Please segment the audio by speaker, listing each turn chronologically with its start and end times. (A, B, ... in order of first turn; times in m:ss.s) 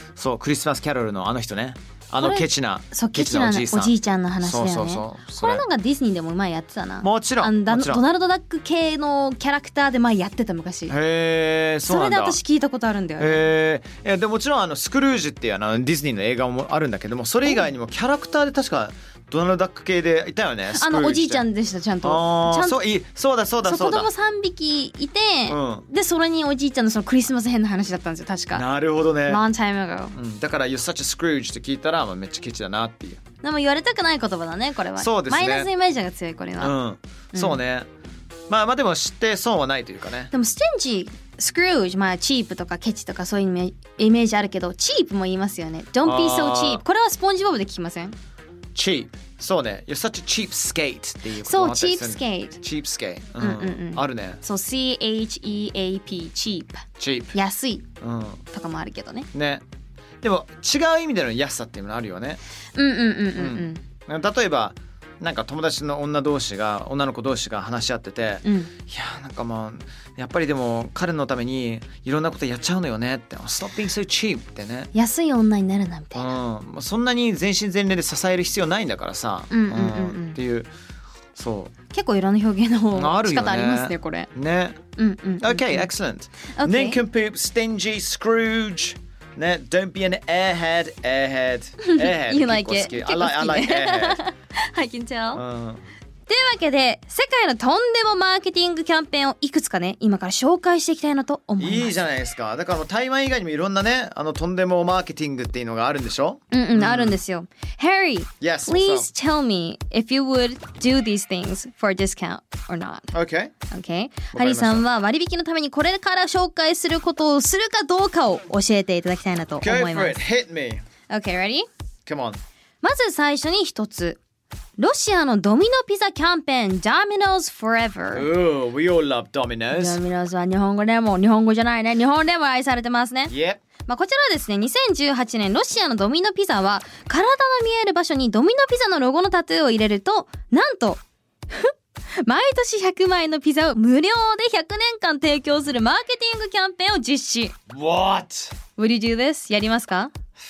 0:00.2-0:05.6 A
0:02.2-0:10.9 B
0:07.0-0:08.0 A
0:10.9-0:12.4 A
0:11.8-0:13.4 B
0:13.2-0:21.4 A
0:20.7-0:22.8 B
0:22.0-0:24.1 A
0:23.6-0:28.6 B
0:25.5-0:25.8 A
0:28.5-0:29.4 A
0:29.2-0:30.2 B
0:30.1-0:33.2 A
0:33.4-0:36.7 B
0:35.0-0:35.7 A
0:36.6-0:37.9 A
0:37.3-0:37.6 B
0:38.5-0:40.3 A
0:40.3-0:48.2 B
0:46.0-0:46.8 A
0:48.7-0:54.4 A
0:51.4-0:52.6 B
0:53.4-0:57.8 B
0:57.0-0:57.4 A
0:58.0-0:58.4 A
0:58.5-0:59.3 B
0:59.3-0:59.6 A
1:00.2-1:02.4 A
1:02.7-1:03.8 B
1:03.3-1:14.9 A
1:08.4-1:08.7 B
1:14.9-1:16.3 B
1:16.1-1:20.7 A
1:19.5-1:20.4 B
1:21.4-1:21.7 A
1:21.9-1:24.3 B
1:22.9-1:24.8 A
1:25.0-1:25.9 B
1:25.4-1:34.2 A
1:26.5-1:27.0 B
1:31.8-1:35.4 B
1:35.3-1:35.8 A
1:36.3-1:42.0 B
1:41.6-1:47.2 A
1:46.5-1:53.1 B
1:48.4-1:49.1 A
1:53.1-1:53.5 A
1:53.7-2:00.2 B
1:54.3-1:54.8 A
1:59.6-2:00.8 A
2:01.1-2:01.7 B
2:02.0-2:02.4 A
2:02.8-2:04.2 B
2:04.8-2:08.3 B
2:08.1-2:10.0 A
2:09.7-2:13.3 B
2:13.3-2:13.6 A
2:13.9-2:21.7 B
2:22.2-2:27.6 B
2:27.7-2:28.6 A
2:28.8-2:30.1 B